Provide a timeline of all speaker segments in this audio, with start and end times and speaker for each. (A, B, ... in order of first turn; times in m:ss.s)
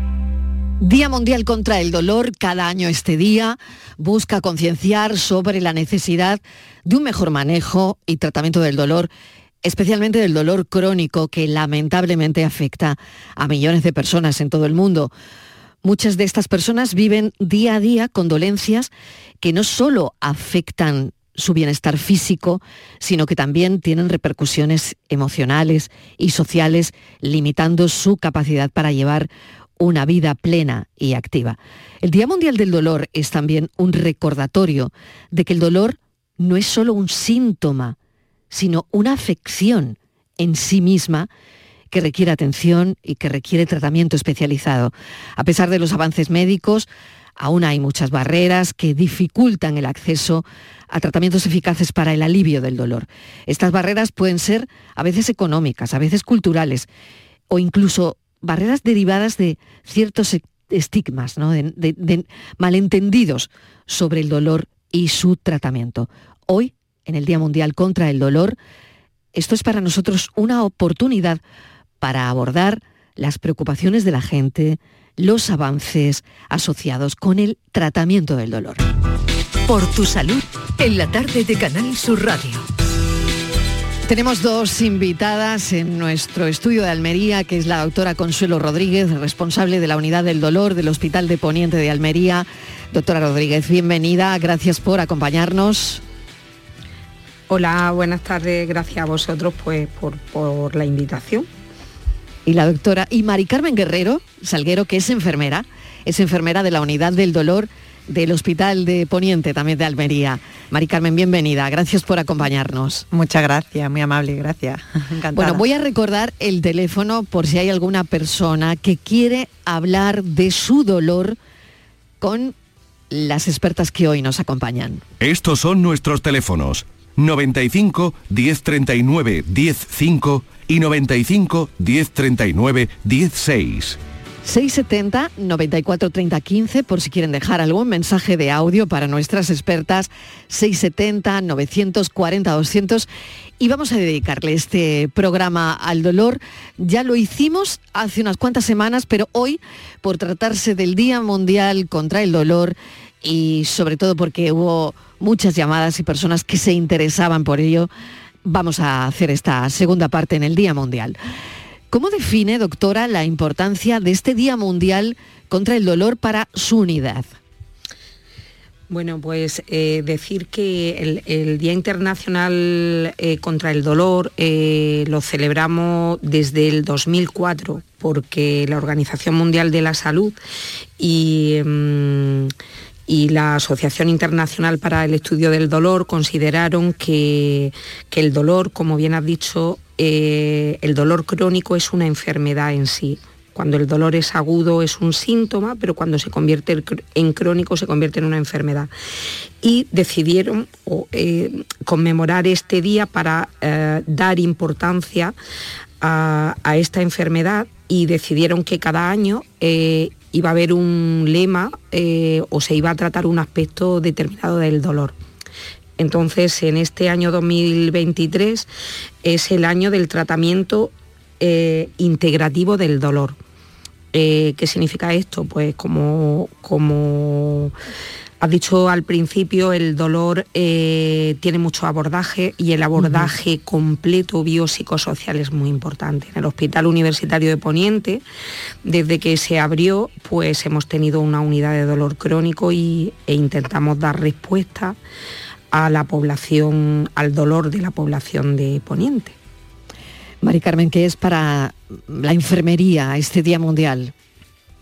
0:00.8-0:09.1 A
0:09.6-0:15.1 A
0:15.8-0:18.9 A
0:19.4-0:38.0 A
0:38.5-0:41.3 A
0:41.9-0:56.9 A
0:57.5-1:08.6 A
1:09.3-1:11.4 A
1:12.0-1:18.8 A
1:19.6-1:22.6 B
1:24.0-1:36.0 A
1:37.5-1:41.5 C
1:42.4-1:53.0 A
1:53.1-1:55.6 D
1:55.3-2:01.4 A
2:02.2-2:02.6 A
2:03.1-2:05.0 A
2:05.2-2:14.0 E
2:14.4-2:23.1 A
2:23.6-2:37.9 A
2:38.4-2:41.2 A
2:41.9-2:47.3 A
2:48.9-3:00.4 C
3:01.0-3:02.5 C
3:03.1-3:18.9 C
3:19.6-3:25.3 C
3:26.0-3:35.2 C
3:36.0-3:38.7 C
3:39.2-3:43.4 C
3:44.1-3:47.7 C
3:48.4-3:58.2 C
3:53.0-3:53.3 A
3:58.8-4:05.0 C
4:05.7-4:09.4 C
4:10.4-4:14.1 A